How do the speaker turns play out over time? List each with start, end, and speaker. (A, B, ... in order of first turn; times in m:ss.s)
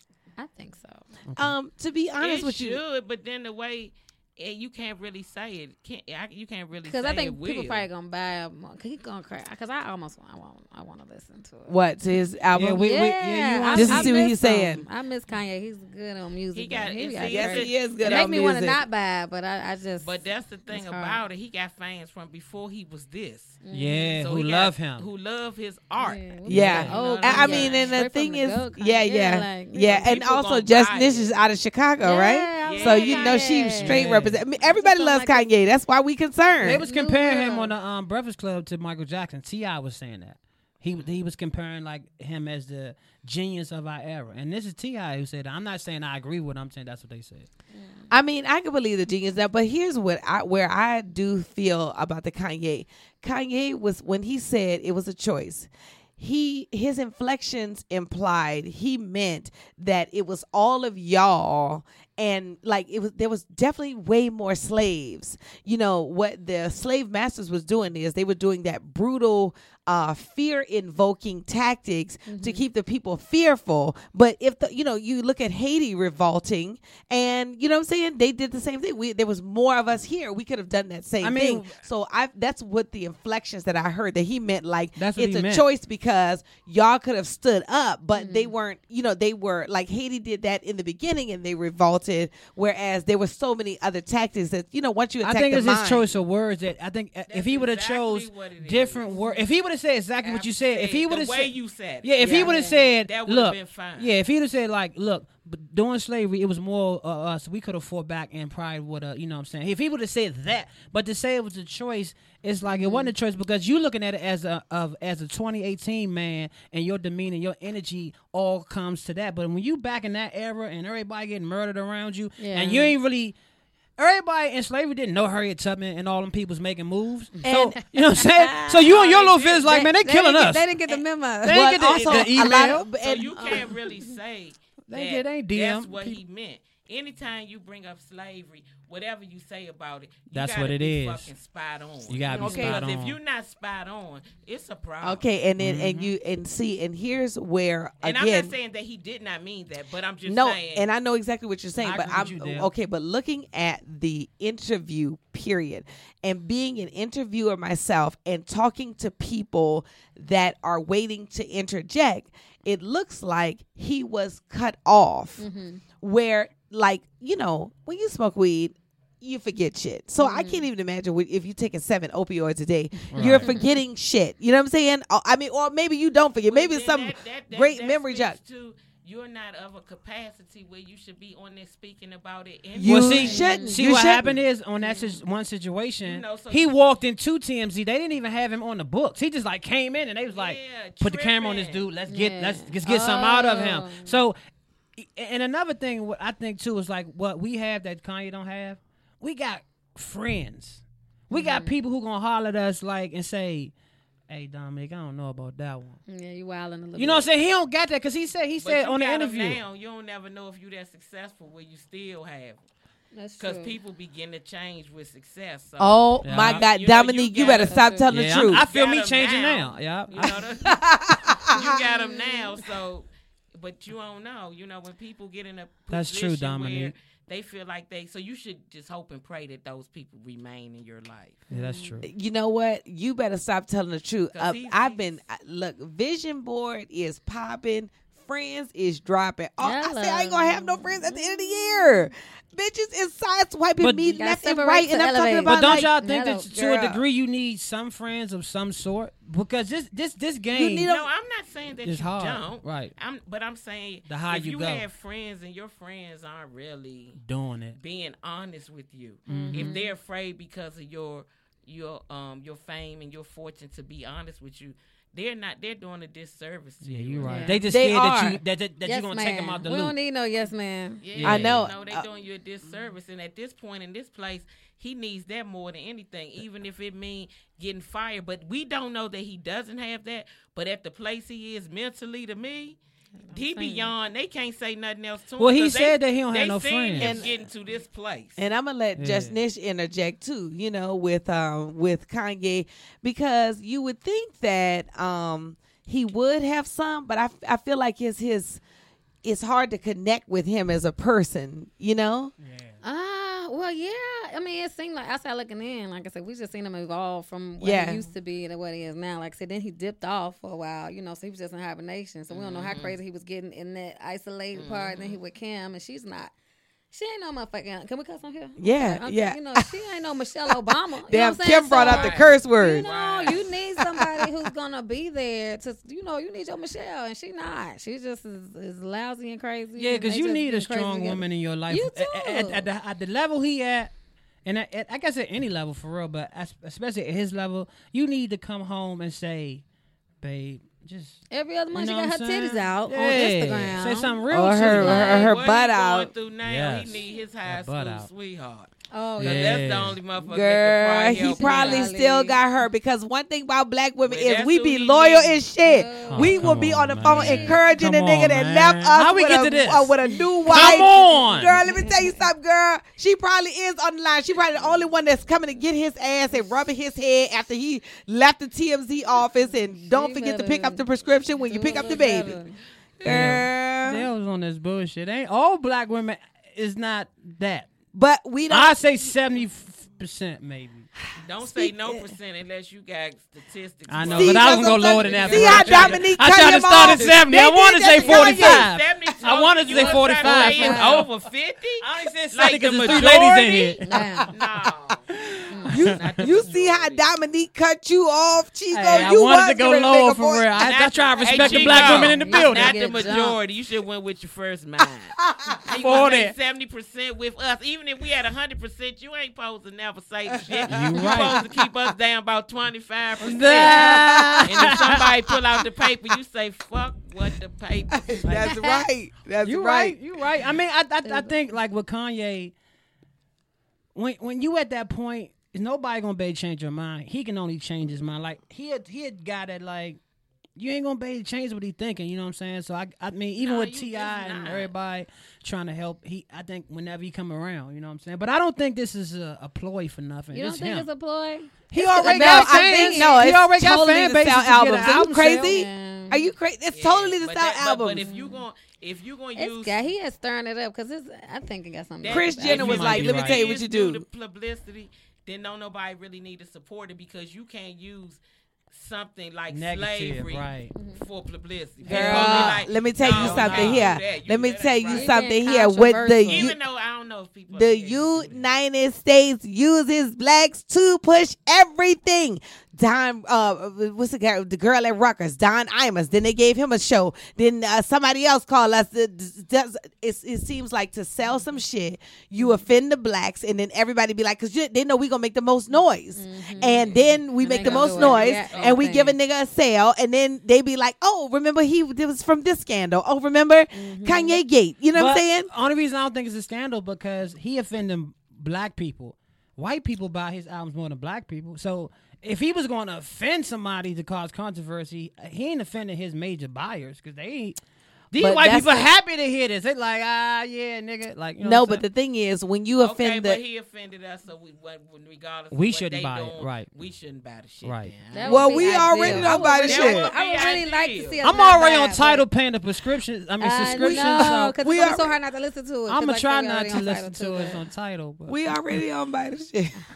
0:00.4-0:01.0 A
0:01.3-0:01.5 B
0:01.4-0:02.8 C
0:02.2-0:07.9 D
0:06.8-0:11.8 A
0:11.7-0:13.0 C
0:12.5-0:14.3 B
0:12.8-0:21.2 A
0:13.7-0:14.8 C
0:16.5-0:17.9 D
0:17.2-0:18.8 C
0:20.0-0:23.6 D
0:23.6-0:24.3 A
0:23.7-0:25.1 B
0:24.2-0:28.0 D
0:26.0-0:30.2 A
0:26.4-0:36.8 C
0:26.5-0:27.6 B
0:29.8-0:31.3 D
0:32.0-0:35.5 A
0:32.6-0:33.6 D
0:33.3-0:34.4 B
0:36.6-0:47.5 B
0:36.6-0:37.7 A
0:47.7-0:48.0 A
0:48.1-1:36.1 C
1:12.2-1:12.7 A
1:21.2-1:21.8 B
1:25.0-1:25.6 B
1:28.1-1:28.5 A
1:35.2-2:03.3 B
1:37.3-1:39.4 D
1:39.1-1:39.4 A
1:40.2-1:42.4 D
1:42.2-1:42.9 A
1:43.0-1:44.2 D
1:52.6-1:53.1 A
2:02.4-2:03.0 A
2:04.0-2:10.7 B
2:07.4-2:08.8 A
2:08.8-2:09.6 D
2:09.6-2:12.6 A
2:11.4-2:12.8 B
2:11.4-2:13.7 C
2:12.9-2:25.2 D
2:13.3-2:14.1 A
2:14.9-2:16.2 B
2:20.3-2:21.3 B
2:22.1-2:23.2 B
2:22.4-2:22.8 C
2:25.0-2:28.5 C
2:25.6-2:26.1 B
2:28.0-2:30.9 D
2:30.2-2:45.4 C
2:31.8-2:32.7 B
2:45.4-2:45.8 A
2:46.0-2:58.4 C
2:50.2-2:50.7 A
2:53.1-2:53.5 B
2:53.2-2:53.7 A
2:56.4-3:03.4 D
3:02.7-3:04.4 C
3:02.8-3:14.3 B
3:03.1-3:03.8 A
3:04.8-3:05.2 A
3:06.0-3:06.7 D
3:10.3-3:11.9 D
3:12.0-3:14.2 A
3:15.0-3:23.7 B
3:21.3-3:21.8 A
3:24.3-3:26.0 B
3:26.1-3:27.3 A
3:27.0-3:29.6 B
3:28.6-3:32.6 D
3:33.1-3:33.8 A
3:33.4-3:37.9 D
3:35.8-3:38.7 C
3:36.2-3:36.7 B
3:37.4-3:38.5 A
3:38.1-3:40.4 B
3:38.4-3:40.8 D
3:40.1-3:40.4 A
3:40.6-3:41.8 C
3:41.5-3:42.7 A
3:41.6-3:51.4 D
3:45.9-3:46.9 B
3:51.5-3:52.0 A
3:51.5-3:52.1 B
3:52.0-4:05.9 C
3:54.3-3:55.2 D
3:59.6-4:02.1 A
4:03.8-4:04.1 B
4:04.0-4:06.5 A
4:05.5-4:10.8 B
4:06.5-4:07.0 C
4:10.5-4:11.1 C
4:10.8-4:17.2 D
4:11.8-4:12.9 B
4:14.0-4:14.8 B
4:17.2-4:17.8 B
4:17.8-4:27.5 D
4:19.2-4:20.0 A
4:19.3-4:19.8 B
4:26.8-4:29.9 B
4:27.2-4:27.7 A
4:27.6-4:28.4 C
4:28.8-4:31.1 A
4:31.0-4:42.8 D
4:31.1-4:31.7 B
4:31.2-4:32.1 C
4:43.3-4:43.9 A
4:43.3-4:48.4 D
4:45.4-4:47.2 B
4:47.0-4:47.4 C
4:48.4-4:58.6 C
4:49.0-4:49.4 B
4:59.2-5:02.3 C
5:02.4-5:02.8 B
5:02.8-5:16.3 A
5:07.6-5:08.0 C
5:12.3-5:13.0 D
5:14.5-5:15.2 D
5:16.9-5:32.7 A
5:18.6-5:19.8 C
5:20.5-5:22.8 C
5:21.8-5:23.5 D
5:23.7-5:24.5 C
5:29.8-5:33.9 B
5:34.4-5:39.6 B
5:40.2-5:45.3 B
5:41.3-5:45.4 A
5:44.3-5:46.1 C
5:45.0-5:51.9 D
5:46.4-5:48.1 B
5:48.9-5:49.7 A
5:49.2-5:50.0 B
5:50.2-6:12.4 C
5:51.2-5:52.4 A
5:54.0-5:55.4 D
5:55.5-5:57.7 A
5:56.1-5:59.9 B
6:00.0-6:02.3 A
6:00.5-6:01.6 B
6:09.5-6:10.8 A
6:11.4-6:12.6 A
6:13.0-6:14.1 C
6:13.0-6:17.7 B
6:17.9-6:19.1 C
6:18.5-6:20.9 B
6:21.0-6:22.0 C
6:21.2-6:26.1 D
6:23.9-6:31.1 B
6:24.1-6:28.7 C
6:26.8-6:27.1 D
6:28.0-6:33.8 D
6:29.3-6:31.1 A
6:31.8-6:34.2 B
6:33.8-6:34.3 A
6:34.3-6:35.2 D
6:35.3-6:36.3 B
6:35.5-6:35.9 A
6:35.7-6:37.1 D
6:35.7-6:40.6 C
6:38.7-6:43.2 B
6:40.6-6:45.1 D
6:41.3-6:43.4 A
6:41.5-6:41.9 C
6:45.2-6:45.6 C
6:45.6-6:58.3 D
6:45.7-6:46.3 B
6:50.3-6:51.7 C
6:50.7-6:51.4 B
6:53.2-6:55.1 B
6:53.6-6:55.2 C
6:57.9-7:00.0 C
6:58.2-6:58.6 B
6:58.4-6:58.9 A
6:59.4-7:02.5 B
7:01.0-7:01.4 A
7:03.9-7:10.0 B
7:10.6-7:20.9 B
7:13.4-7:14.7 D
7:20.3-7:23.3 A
7:21.7-7:25.6 B
7:21.7-7:28.0 C
7:25.4-7:26.3 A
7:26.7-7:29.9 D
7:27.9-7:28.4 A
7:29.3-7:32.9 A
7:32.0-7:45.2 D
7:32.0-7:34.0 C
7:32.4-7:33.6 B
7:39.5-7:40.7 B
7:40.7-7:41.0 A
7:41.8-7:44.0 B
7:41.8-7:46.6 C
7:44.8-7:46.6 A
7:46.3-7:48.5 D
7:47.5-8:15.5 C
8:06.1-8:09.2 A
8:07.5-8:08.8 D
8:07.6-8:08.7 B
8:13.7-8:14.4 A
8:14.9-8:27.6 B
8:28.1-8:31.8 B
8:28.2-8:28.8 C
8:31.4-8:33.4 C
8:32.8-8:38.9 D
8:35.5-8:36.7 B
8:37.6-8:40.0 B
8:38.1-8:42.2 A
8:38.2-8:40.1 C
8:39.6-8:41.2 D
8:41.2-8:44.6 B
8:43.4-8:47.7 A
8:43.7-8:45.2 C
8:45.9-8:48.5 B
8:48.3-8:49.8 C